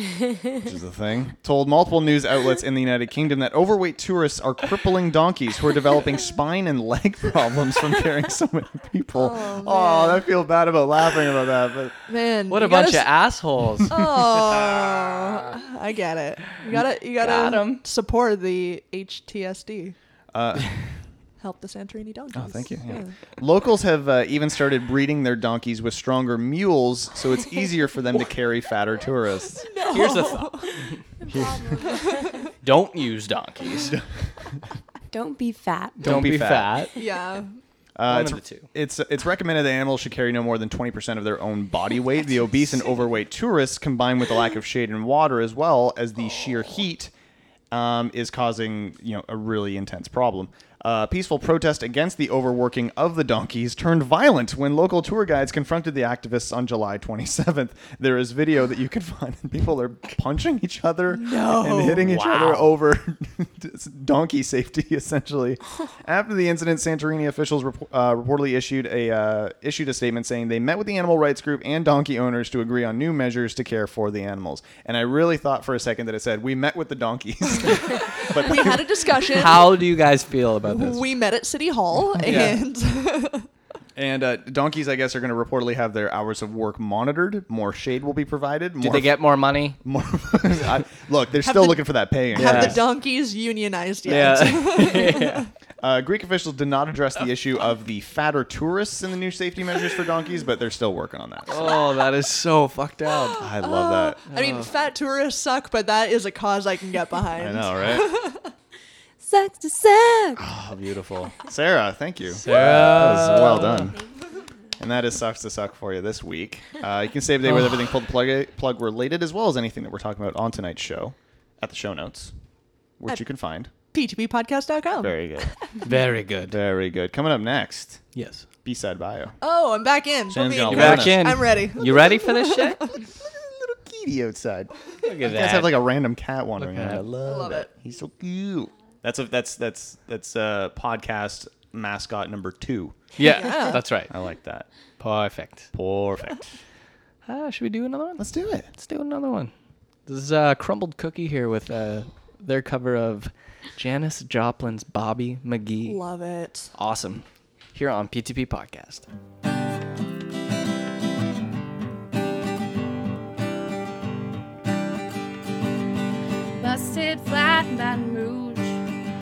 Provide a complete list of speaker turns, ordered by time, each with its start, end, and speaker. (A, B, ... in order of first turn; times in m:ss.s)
0:00.6-0:12.0 A
0:09.2-0:10.0 B
0:12.1-0:13.1 B
0:12.5-0:14.0 C
0:13.9-0:20.0 B
0:14.5-0:15.1 A
0:17.2-0:17.8 C
0:20.3-0:20.8 A
0:21.4-0:23.1 B
0:22.3-0:29.7 A
0:29.6-0:30.7 B
0:29.9-0:31.0 C
0:31.2-0:32.5 D
0:31.3-0:31.8 A
0:31.9-0:32.5 B
0:32.6-0:34.0 C
0:35.1-0:36.2 D
0:36.0-0:36.8 A
0:36.0-0:37.0 C
0:37.0-0:37.5 B
0:38.0-0:47.1 A
0:38.1-0:38.7 C
0:47.7-1:18.9 A
1:01.1-1:02.1 B
1:02.0-1:02.7 C
1:18.2-1:19.7 B
1:19.3-1:21.0 C
1:20.7-1:23.5 B
1:22.2-1:22.5 A
1:22.2-1:22.6 C
1:24.0-1:29.2 A
1:28.8-1:29.8 C
1:29.8-1:32.8 A
1:31.4-1:35.5 B
1:32.4-1:32.8 C
1:34.1-1:35.5 C
1:35.8-1:41.7 A
1:41.5-1:43.5 C
1:43.4-1:44.2 A
1:43.6-1:48.5 B
1:44.3-1:44.6 C
1:47.4-1:48.1 A
1:49.2-1:50.4 D
1:50.4-1:54.0 A
1:52.4-1:53.9 C
1:54.8-2:02.3 A
2:03.0-2:03.7 A
2:03.9-2:05.1 B
2:05.0-2:05.5 A
2:05.8-2:06.6 C
2:06.5-2:08.0 A
2:08.1-2:08.5 C
2:08.6-2:09.4 A
2:09.4-2:12.9 B
2:10.3-2:11.4 A
2:10.7-2:12.8 C
2:13.1-2:23.0 A
2:15.0-2:15.8 C
2:16.6-2:17.1 C
2:17.2-2:17.7 B
2:23.2-2:24.1 C
2:23.2-2:23.8 B
2:24.1-2:24.7 A
2:25.0-2:25.7 C
2:25.7-2:26.6 A
2:27.3-2:29.5 C
2:28.2-2:28.7 A
2:30.1-2:36.0 C
2:35.8-2:36.7 B
2:36.7-2:39.1 C
2:46.6-2:48.8 E